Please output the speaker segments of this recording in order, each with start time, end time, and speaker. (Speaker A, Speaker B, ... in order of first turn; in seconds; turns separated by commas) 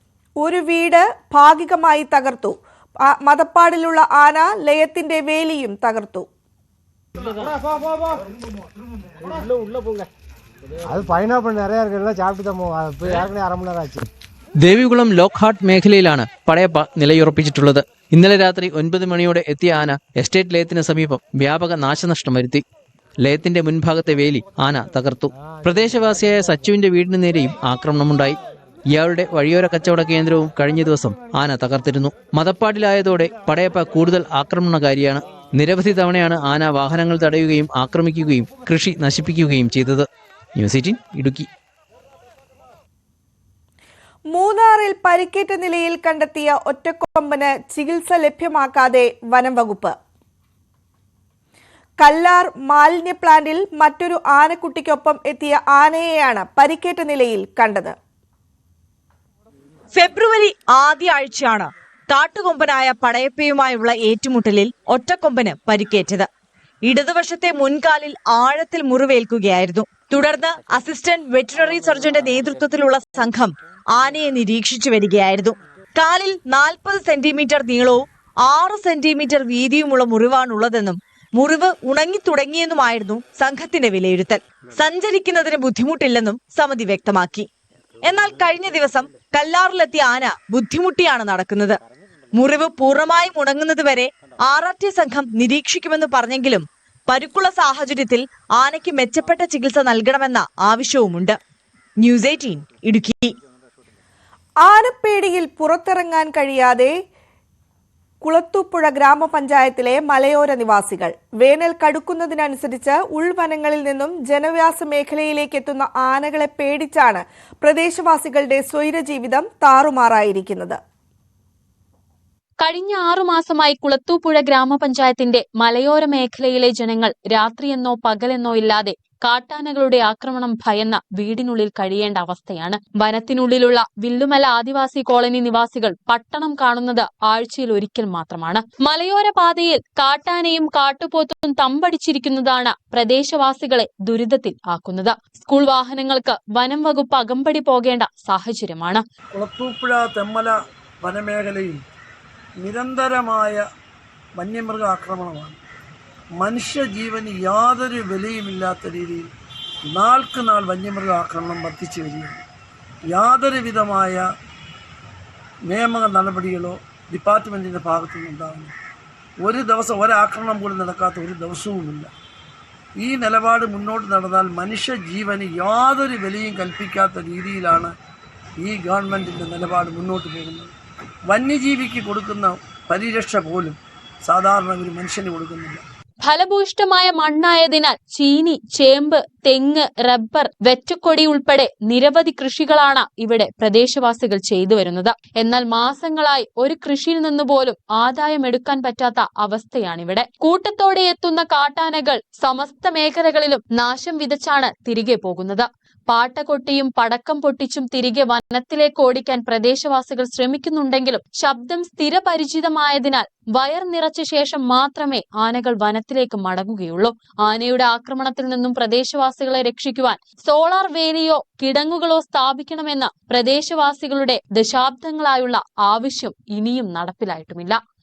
Speaker A: 0.4-6.3, Speaker B: 10.8-14.1, Speaker C: 14.6-22.6, Speaker C: 23.2-28.4, Speaker C: 28.9-41.5, Speaker A: 44.3-49.9, Speaker A: 52.0-57.9, Speaker D: 59.9-66.3, Speaker D: 66.8-87.5, Speaker D: 88.0-91.8, Speaker D: 92.4-101.4, Speaker D: 102.0-103.3, Speaker A: 104.6-106.9, Speaker A: 108.2-120.8, Speaker E: 122.6-149.0, Speaker F: 149.3-151.8, Speaker F: 152.6-153.6, Speaker F: 154.4-155.6, Speaker F: 156.4-159.3, Speaker F: 159.9-162.4, Speaker F: 163.1-164.2, Speaker F: 165.7-168.7, Speaker F: 169.4-172.1, Speaker F: 173.0-177.9, Speaker F: 178.6-180.7, Speaker F: 181.3-185.8, Speaker E: 186.2-227.8